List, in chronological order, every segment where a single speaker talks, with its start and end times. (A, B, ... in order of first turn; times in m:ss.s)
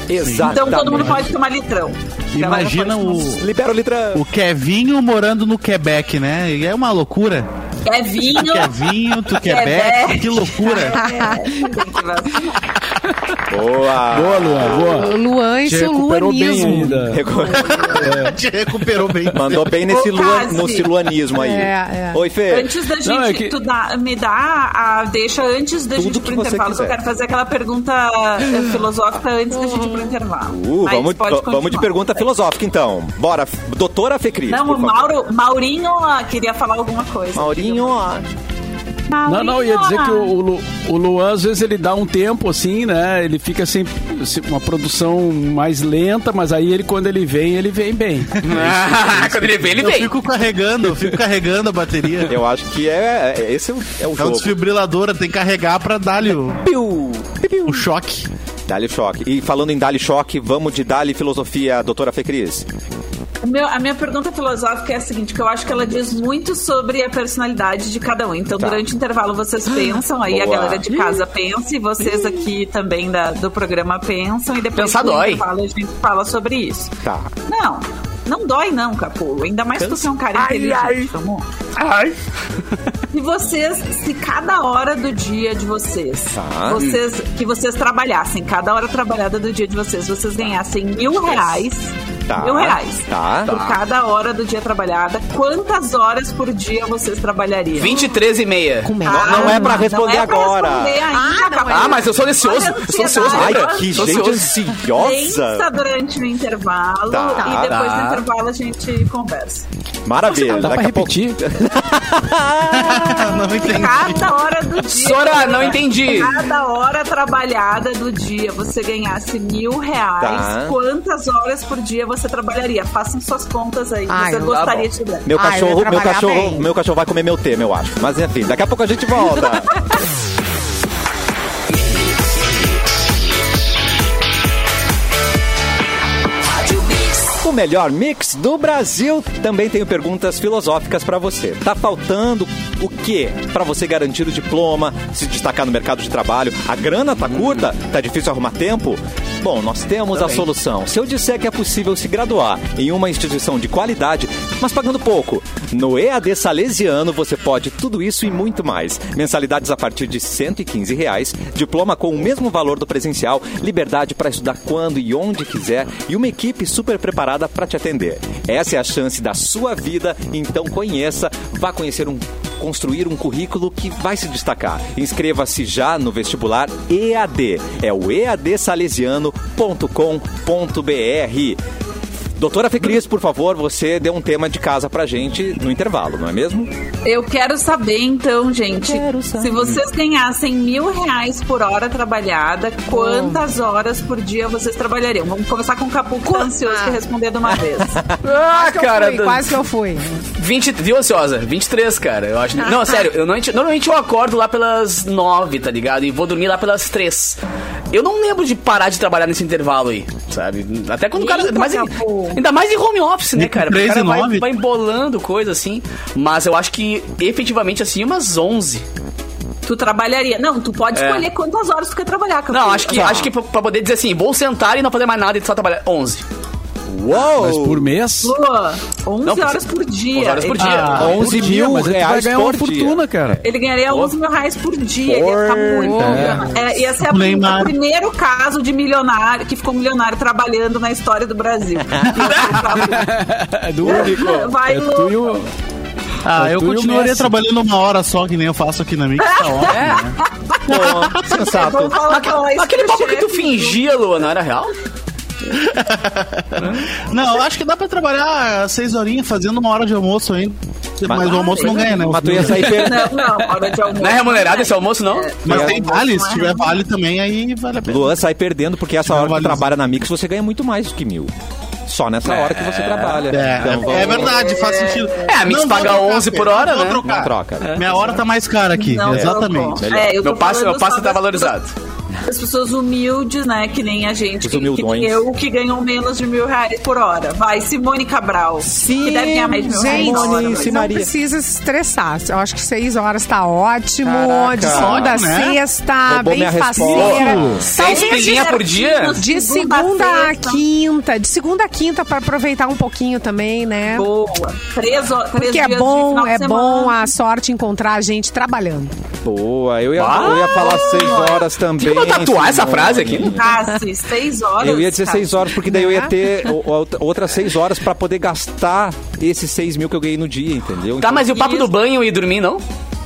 0:00.1-0:01.4 A
0:00.2-0:01.2 B
0:00.4-0:03.3 C
0:02.3-0:03.4 B
0:02.4-0:04.2 A
0:04.1-0:07.5 B
0:07.8-0:12.6 C
0:08.2-0:11.0 B
0:10.8-0:11.7 D
0:13.5-0:15.1 A
0:14.1-0:17.3 E
0:14.9-0:17.0 D
0:17.1-0:18.1 A
0:17.5-0:17.9 C
0:17.5-0:19.8 B
0:18.0-0:18.4 E
0:19.3-0:22.7 A
0:19.9-0:20.9 C
0:21.3-0:22.2 D
0:22.5-0:32.3 C
0:23.0-0:23.6 E
0:26.0-0:27.0 A
0:30.5-0:35.2 A
0:34.5-0:38.0 C
0:37.4-0:38.2 A
0:39.1-0:40.3 C
0:39.3-0:48.4 E
0:48.4-0:52.4 B
0:48.4-0:50.1 F
0:52.3-0:54.6 A
0:54.2-0:56.6 B
0:56.6-0:57.9 A
0:57.7-0:58.3 B
0:58.7-1:02.7 A
1:03.4-1:16.9 C
1:10.3-1:11.1 A
1:14.8-1:15.4 F
1:17.0-1:17.3 A
1:17.5-1:21.5 C
1:19.8-1:21.1 F
1:21.8-1:22.2 F
1:23.1-1:38.1 C
1:26.3-1:26.8 A
1:31.2-1:31.6 F
1:32.3-1:33.5 A
1:33.5-1:33.8 F
1:37.8-1:39.0 F
1:38.8-1:39.9 D
1:39.0-1:49.7 C
1:39.1-1:41.1 A
1:41.1-1:42.0 D
1:41.7-1:44.6 F
1:43.2-1:45.7 A
1:47.1-1:47.8 A
1:47.6-1:48.2 F
1:50.0-1:53.4 A
1:50.3-1:51.4 E
1:52.7-1:54.3 B
1:53.6-2:05.3 C
1:54.8-1:56.4 F
2:00.2-2:00.8 A
2:04.1-2:04.6 D
2:04.5-2:04.9 F
2:05.3-2:09.7 A
2:05.4-2:06.7 D
2:17.4-3:01.6 A
2:27.3-2:27.6 F
2:30.2-2:30.4 F
3:02.4-3:06.7 A
3:07.0-3:18.0 C
3:08.8-3:09.7 A
3:12.9-3:13.4 D
3:16.3-3:17.0 D
3:18.2-3:19.6 F
3:18.5-3:20.2 D
3:20.4-3:27.4 F
3:27.9-3:38.8 F
3:31.2-3:32.4 C
3:33.4-3:34.5 B
3:39.6-3:43.3 C
3:40.9-3:41.3 F
3:42.5-3:46.2 F
3:42.9-3:43.3 A
3:46.9-3:47.9 A
3:47.2-3:48.4 E
3:48.2-3:51.3 C
3:49.2-3:51.3 F
3:50.6-3:51.2 B
3:50.6-3:53.4 E
3:50.9-3:53.4 A
3:53.4-4:03.2 C
3:53.9-3:54.1 F
3:55.1-3:56.4 A
3:55.8-3:56.3 D
3:56.0-3:56.5 E
3:57.0-3:57.8 B
4:02.1-4:02.5 B
4:02.2-4:02.5 F
4:02.8-4:05.5 E
4:03.8-4:05.4 C
4:03.9-4:04.4 A
4:06.2-4:10.2 B
4:06.4-4:07.4 E
4:09.2-4:13.8 C
4:09.6-4:10.0 F
4:10.7-4:12.0 A
4:10.7-4:11.5 B
4:11.9-4:14.8 F
4:15.5-4:22.8 B
4:21.0-4:23.2 A
4:21.2-4:26.8 C
4:24.0-4:25.3 F
4:25.4-4:28.2 B
4:25.5-4:25.8 A
4:27.8-4:31.3 A
4:29.0-4:29.7 B
4:31.9-4:34.4 A
4:32.2-4:34.1 F
4:33.3-4:39.8 B
4:33.9-4:35.7 C
4:35.3-4:37.0 F
4:37.0-4:38.0 A
4:37.6-4:38.0 F
4:38.7-4:41.6 C
4:39.1-4:40.2 A
4:40.2-4:41.7 F
4:42.3-4:50.9 C
4:44.4-4:45.2 A
4:48.6-4:51.1 A
4:49.6-4:58.6 D
4:54.0-4:55.2 A
4:54.7-4:55.6 B
4:56.1-4:57.7 A
4:56.9-4:59.2 F
4:57.0-4:57.6 B
4:57.7-5:00.6 C
4:59.2-5:04.1 D
5:03.9-5:07.1 C
5:05.4-5:08.9 D
5:09.2-5:13.6 A
5:10.0-5:13.4 F
5:10.2-5:11.4 C
5:13.2-5:15.6 C
5:14.6-5:21.3 A
5:15.6-5:16.1 D
5:21.0-5:22.6 F
5:21.3-5:21.8 C